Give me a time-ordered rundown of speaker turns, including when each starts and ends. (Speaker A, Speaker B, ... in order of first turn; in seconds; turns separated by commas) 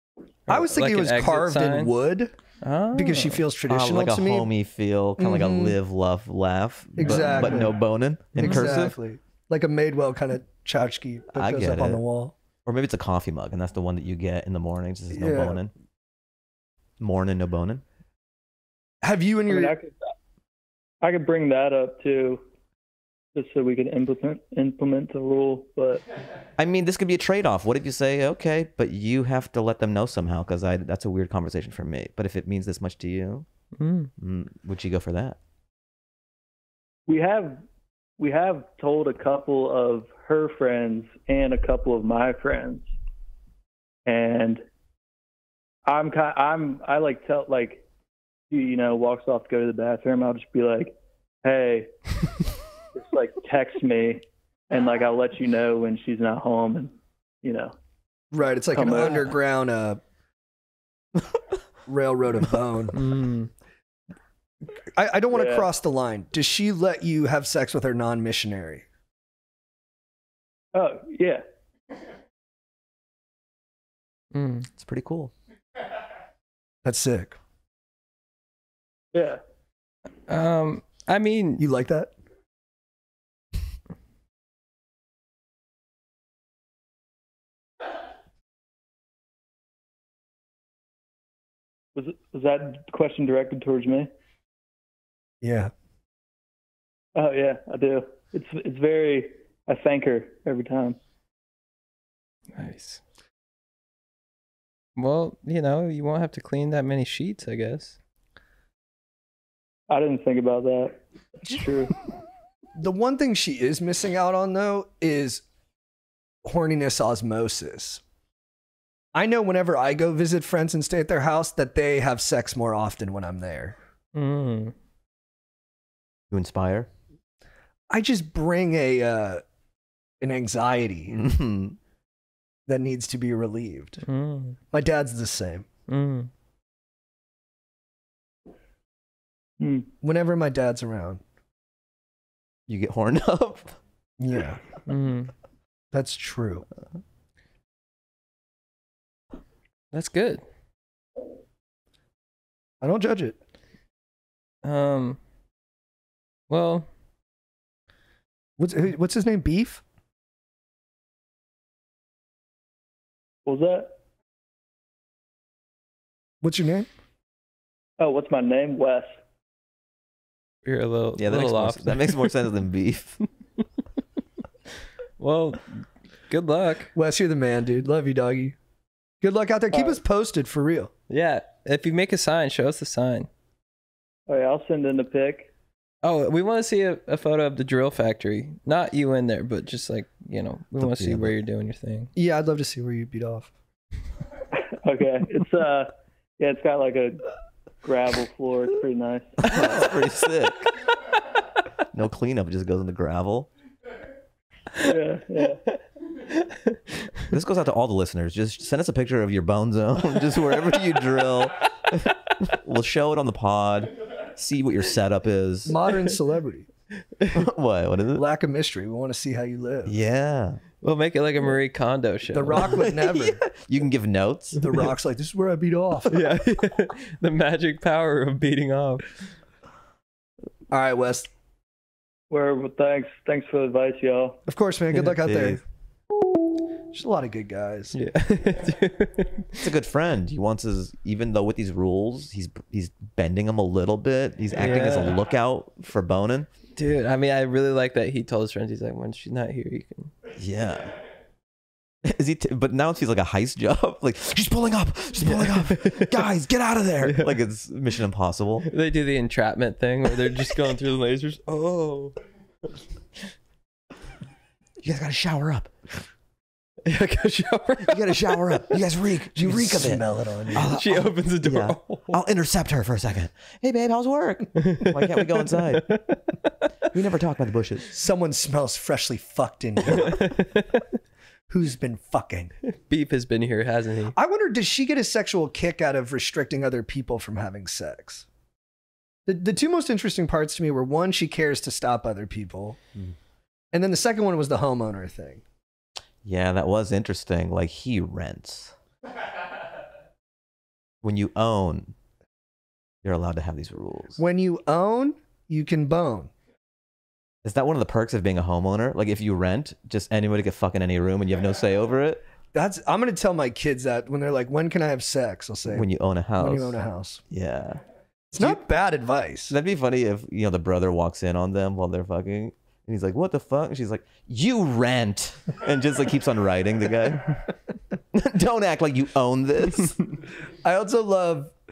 Speaker A: 0.5-1.9, Speaker B: 0.5-2.4, Speaker A: 2.6-3.4, Speaker B: 3.0-4.5, Speaker C: 3.7-8.9, Speaker B: 5.2-5.8, Speaker B: 7.0-7.8, Speaker A: 7.2-7.6, Speaker A: 8.3-8.9, Speaker B: 8.3-12.3, Speaker C: 11.4-12.0, Speaker C: 12.7-15.7, Speaker B: 15.1-15.6, Speaker C: 17.0-17.8, Speaker B: 19.0-19.8, Speaker D: 19.5-20.0, Speaker D: 21.0-22.4, Speaker D: 23.4-26.0, Speaker C: 26.6-33.5, Speaker A: 33.8-34.1, Speaker C: 34.2-35.4, Speaker D: 37.1-37.6, Speaker D: 38.2-42.9, Speaker D: 44.1-44.6, Speaker D: 45.9-47.8, Speaker D: 48.5-51.9, Speaker D: 53.0-57.8, Speaker B: 58.3-60.0, Speaker D: 58.7-59.4, Speaker B: 61.9-63.0, Speaker A: 63.0-63.5, Speaker B: 65.0-68.8, Speaker D: 65.3-65.7, Speaker D: 70.7-71.5, Speaker A: 74.3-74.7, Speaker C: 74.8-75.3, Speaker B: 76.8-77.4, Speaker D: 79.1-79.4, Speaker A: 80.3-81.7, Speaker B: 81.6-82.1, Speaker D: 92.0-94.1, Speaker B: 95.4-95.7, Speaker D: 97.2-101.0, Speaker A: 102.5-103.0, Speaker A: 105.0-108.0, Speaker D: 109.9-112.0, Speaker B: 112.8-115.4, Speaker B: 116.5-118.0, Speaker B: 119.2-123.8, Speaker A: 124.2-124.7, Speaker C: 126.3-126.9, Speaker B: 127.9-129.4, Speaker B: 130.2-131.2, Speaker C: 131.1-131.8, Speaker B: 132.7-134.0, Speaker A: 134.1-134.6, Speaker B: 134.7-135.7, Speaker A: 135.9-136.3, Speaker D: 139.6-139.9, Speaker B: 140.0-141.2, Speaker C: 142.7-143.8, Speaker B: 144.2-144.6, Speaker A: 144.9-145.3, Speaker B: 145.9-146.7, Speaker A: 149.9-150.4, Speaker B: 152.8-153.4, Speaker A: 154.6-155.2, Speaker A: 156.5-156.9, Speaker B: 158.6-159.8, Speaker D: 163.5-163.9, Speaker B: 166.4-166.9, Speaker D: 168.0-169.2, Speaker A: 170.7-172.3, Speaker C: 171.2-173.2, Speaker A: 175.2-176.9, Speaker B: 176.9-178.6, Speaker B: 179.2-180.9, Speaker D: 179.7-180.0, Speaker A: 181.1-183.3, Speaker D: 184.3-185.5, Speaker A: 186.0-192.1, Speaker C: 190.8-191.3, Speaker B: 192.2-193.5, Speaker D: 194.7-197.3, Speaker D: 197.8-199.4, Speaker C: 199.4-200.7, Speaker C: 201.9-203.5, Speaker D: 204.8-205.6, Speaker A: 206.3-206.8, Speaker C: 207.3-215.8, Speaker B: 215.7-216.7, Speaker A: 217.2-217.4, Speaker C: 217.3-218.2, Speaker B: 218.2-220.0, Speaker C: 219.9-220.6, Speaker A: 220.8-222.7, Speaker B: 222.3-223.4, Speaker C: 222.6-224.9, Speaker B: 224.6-226.2, Speaker A: 226.1-229.2, Speaker B: 230.7-231.3, Speaker D: 232.3-234.4, Speaker B: 234.5-235.6, Speaker C: 235.2-235.6, Speaker B: 236.9-238.0, Speaker A: 237.9-239.6, Speaker C: 239.6-246.5, Speaker A: 244.6-245.2, Speaker A: 246.8-250.1, Speaker C: 250.3-251.0, Speaker C: 252.0-258.7, Speaker A: 255.2-256.2, Speaker A: 257.0-257.4, Speaker A: 258.6-262.2, Speaker C: 264.8-266.0, Speaker A: 266.9-268.6, Speaker C: 267.8-275.9, Speaker B: 269.4-270.7, Speaker A: 270.6-272.2, Speaker A: 274.6-276.2, Speaker C: 276.9-277.9, Speaker B: 277.9-280.2, Speaker A: 279.9-280.8, Speaker B: 281.5-282.6, Speaker A: 282.7-284.1, Speaker B: 284.2-288.2, Speaker B: 289.3-292.8, Speaker B: 293.7-295.4, Speaker C: 296.2-298.8, Speaker C: 301.0-302.0, Speaker C: 303.0-304.2, Speaker B: 304.2-306.3, Speaker C: 307.4-312.2, Speaker B: 312.5-317.2, Speaker C: 315.7-316.8, Speaker C: 317.3-317.8, Speaker B: 318.3-319.6, Speaker C: 319.5-327.5, Speaker C: 328.1-330.0, Speaker B: 330.6-331.5